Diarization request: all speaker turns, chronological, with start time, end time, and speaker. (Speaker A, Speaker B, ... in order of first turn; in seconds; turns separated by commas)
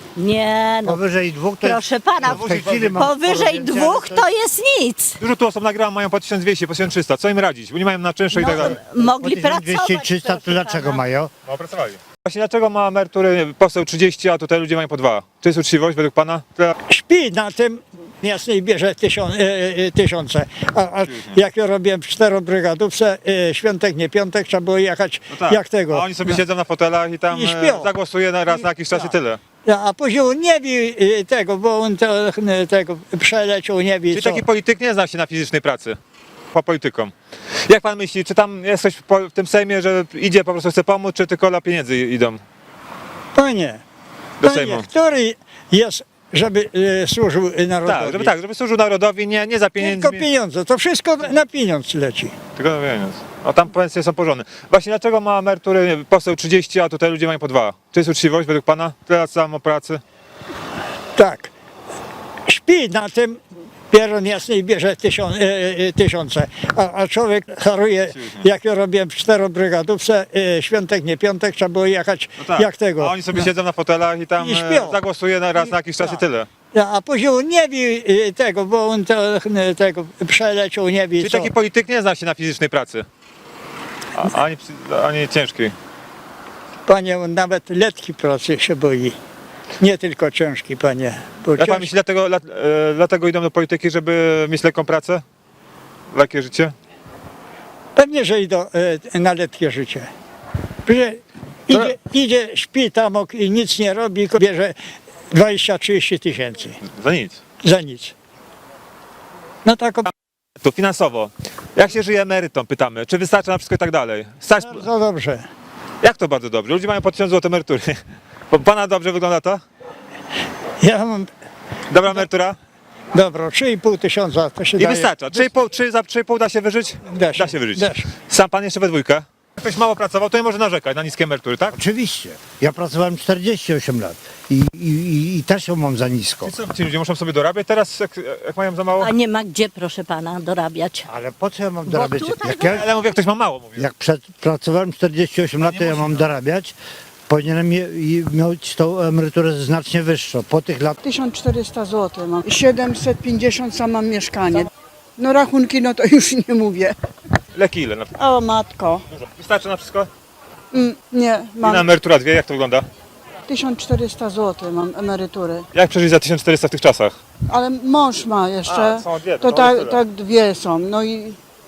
Speaker A: 0.1-1.0, Speaker B: 0.8-4.3, Speaker A: 1.6-5.2, Speaker C: 2.2-3.1, Speaker C: 5.2-8.8, Speaker A: 8.3-11.0, Speaker B: 8.4-11.3, Speaker C: 11.4-16.8, Speaker D: 16.9-26.4, Speaker C: 21.1-21.4, Speaker C: 25.3-29.4, Speaker D: 27.4-27.9, Speaker D: 29.6-34.4, Speaker C: 34.1-36.0, Speaker C: 36.5-37.1, Speaker C: 37.7-42.4, Speaker D: 43.3-43.8, Speaker C: 44.4-44.9, Speaker D: 44.4-48.4, Speaker C: 47.8-50.2, Speaker D: 49.8-52.1, Speaker C: 52.6-60.0, Speaker D: 61.1-61.5, Speaker D: 62.5-63.4, Speaker D: 63.9-73.5, Speaker C: 68.1-68.5, Speaker C: 72.4-76.5, Speaker D: 74.4-75.0, Speaker D: 76.7-81.5, Speaker C: 81.2-83.1, Speaker C: 84.1-85.8, Speaker D: 86.9-89.1, Speaker D: 89.8-91.8, Speaker C: 91.6-95.2, Speaker C: 96.1-96.7, Speaker D: 98.0-100.1, Speaker D: 100.8-104.8, Speaker C: 101.7-101.9, Speaker D: 105.3-106.8, Speaker C: 106.8-107.4, Speaker D: 107.6-108.1, Speaker D: 109.6-110.1, Speaker C: 110.6-114.9, Speaker D: 114.6-115.5, Speaker C: 116.0-118.0, Speaker C: 118.5-119.6, Speaker D: 120.8-121.3, Speaker C: 121.9-122.6, Speaker D: 123.1-125.1, Speaker C: 124.8-131.8, Speaker D: 127.1-128.1, Speaker B: 131.7-136.5, Speaker C: 136.4-139.1, Speaker A: 139.0-141.1, Speaker B: 141.1-142.9, Speaker A: 141.9-142.9, Speaker C: 142.7-143.9, Speaker B: 143.8-146.8, Speaker C: 145.6-146.3, Speaker B: 147.3-151.0, Speaker E: 151.0-156.9, Speaker C: 157.5-158.1, Speaker E: 158.2-159.0, Speaker C: 159.1-160.1, Speaker E: 160.7-161.8, Speaker C: 161.6-162.9, Speaker E: 163.5-165.6, Speaker C: 165.7-167.2, Speaker E: 167.5-171.4, Speaker C: 168.7-170.0